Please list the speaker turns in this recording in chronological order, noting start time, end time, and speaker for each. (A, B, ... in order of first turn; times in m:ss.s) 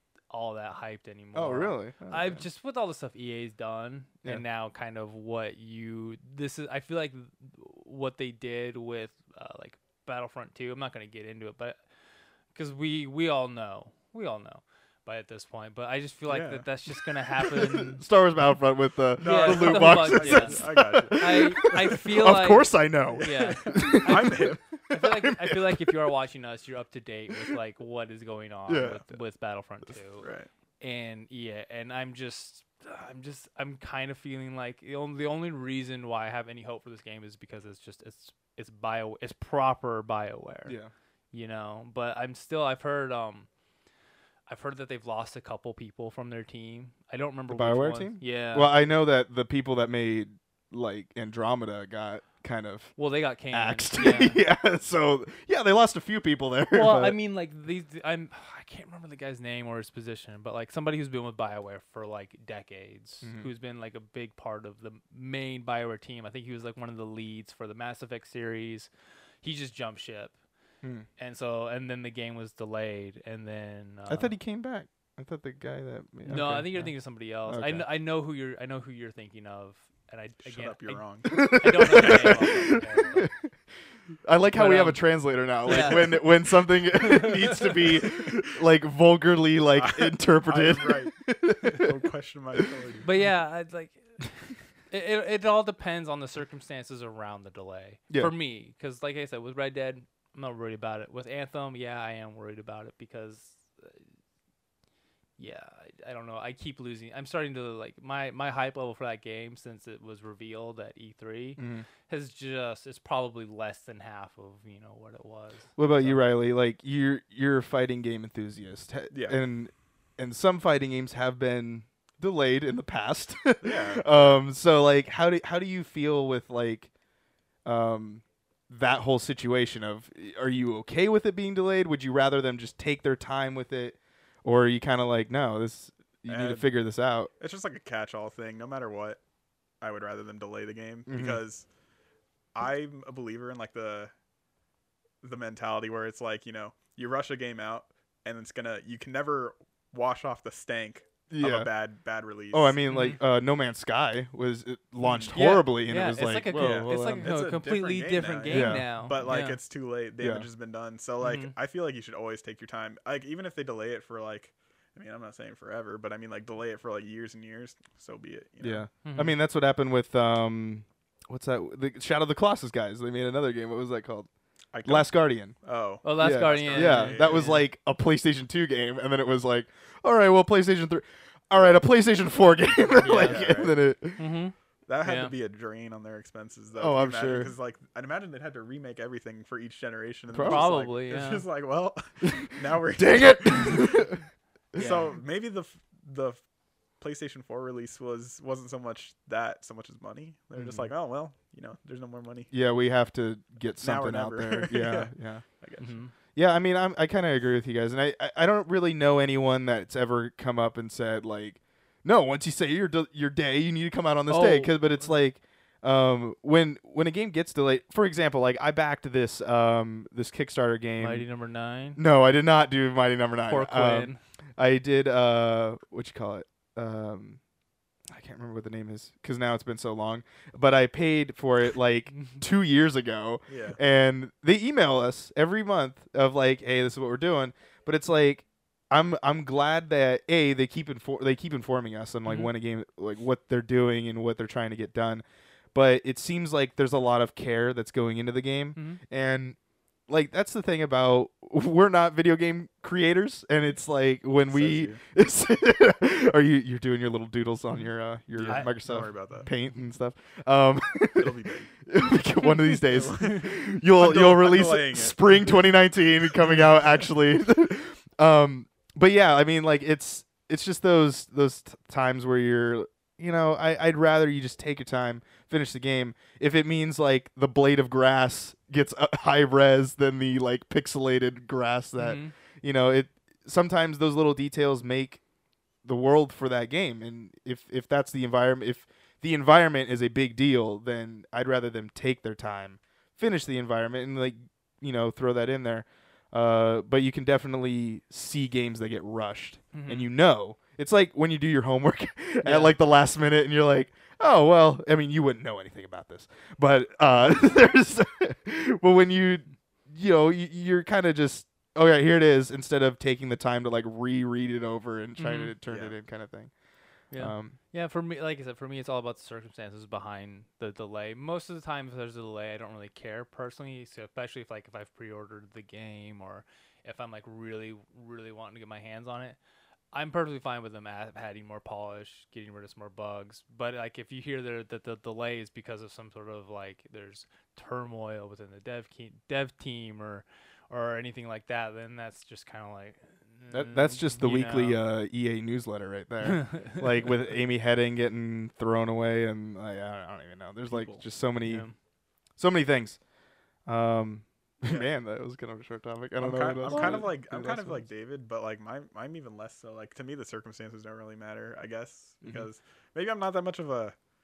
0:00.3-0:11.8 A
0:01.3-0:02.4 B
0:12.5-0:18.0 A
0:16.3-0:16.7 C
0:17.4-0:26.0 B
0:19.2-0:21.9 C
0:19.2-0:30.3 A
0:23.2-0:24.6 C
0:28.7-0:29.0 B
0:30.2-0:30.5 C
0:30.8-0:40.8 A
0:40.6-0:40.9 B
0:41.3-0:43.5 A
0:44.5-0:48.8 A
0:47.5-0:52.9 B
0:53.0-0:54.4 A
0:53.5-0:57.2 B
0:56.7-1:08.9 A
1:03.2-1:03.5 B
1:09.4-1:10.3 A
1:10.8-1:11.1 B
1:11.2-1:14.3 A
1:14.1-1:17.8 B
1:16.2-1:23.3 A
1:20.4-1:21.3 C
1:21.3-1:23.3 B
1:24.2-1:32.0 B
1:24.5-1:25.0 A
1:25.6-1:27.9 A
1:25.7-1:26.1 C
1:29.8-1:31.1 C
1:31.7-1:33.1 C
1:33.0-1:44.0 A
1:45.4-1:56.2 A
1:51.6-1:51.8 B
1:55.8-2:06.9 B
1:59.1-1:59.4 C
2:03.6-2:04.4 C
2:07.6-2:17.3 B
2:16.3-2:16.7 C
2:17.4-2:19.2 C
2:19.8-2:21.6 C
2:21.1-2:21.4 B
2:22.5-2:24.1 C
2:25.2-2:32.8 C
2:31.3-2:31.7 B
2:32.5-2:37.3 B
2:32.8-2:33.2 A
2:35.3-2:39.6 A
2:36.5-2:48.8 C
2:38.5-2:38.9 B
2:40.2-2:40.4 B
2:41.2-2:41.5 A
2:48.6-2:54.3 B
2:49.0-2:49.4 A
2:54.7-2:57.6 C
2:54.8-2:55.5 B
2:56.0-2:57.6 A
2:56.1-3:04.2 B
3:03.0-3:03.5 A
3:03.0-3:03.8 C
3:04.2-3:05.3 A
3:04.9-3:14.1 C
3:06.8-3:07.5 B
3:10.3-3:10.7 B
3:10.4-3:11.4 A
3:12.2-3:14.2 B
3:14.7-3:15.1 A
3:14.8-3:16.4 C
3:17.0-3:22.5 C
3:20.5-3:20.9 B
3:22.5-3:25.4 B
3:23.8-3:25.9 C
3:25.8-3:26.1 A
3:26.3-3:41.2 B
3:34.3-3:35.0 A
3:41.0-3:42.0 A
3:42.0-3:47.4 B
3:43.5-3:44.2 A
3:48.1-4:09.6 B
3:53.5-3:53.8 C
4:02.2-4:02.5 A
4:08.7-4:09.0 A
4:10.1-4:45.2 B
4:14.5-4:15.0 C
4:18.3-4:19.5 C
4:18.4-4:18.7 A
4:21.2-4:21.7 C
4:22.6-4:25.7 C
4:42.0-4:42.3 A
4:45.8-5:16.5 B
4:59.7-5:00.1 A
5:02.4-5:02.8 A
5:15.2-5:15.5 A
5:15.7-5:15.9 C
5:17.1-5:29.4 A
5:17.1-5:17.6 B
5:29.9-5:44.8 A
5:43.5-5:51.7 B
5:46.2-5:46.8 A
5:50.7-5:51.0 C
5:51.4-5:51.7 A
5:52.4-5:53.0 B
5:53.6-5:57.8 B
5:56.2-6:03.9 C
5:56.6-5:57.1 A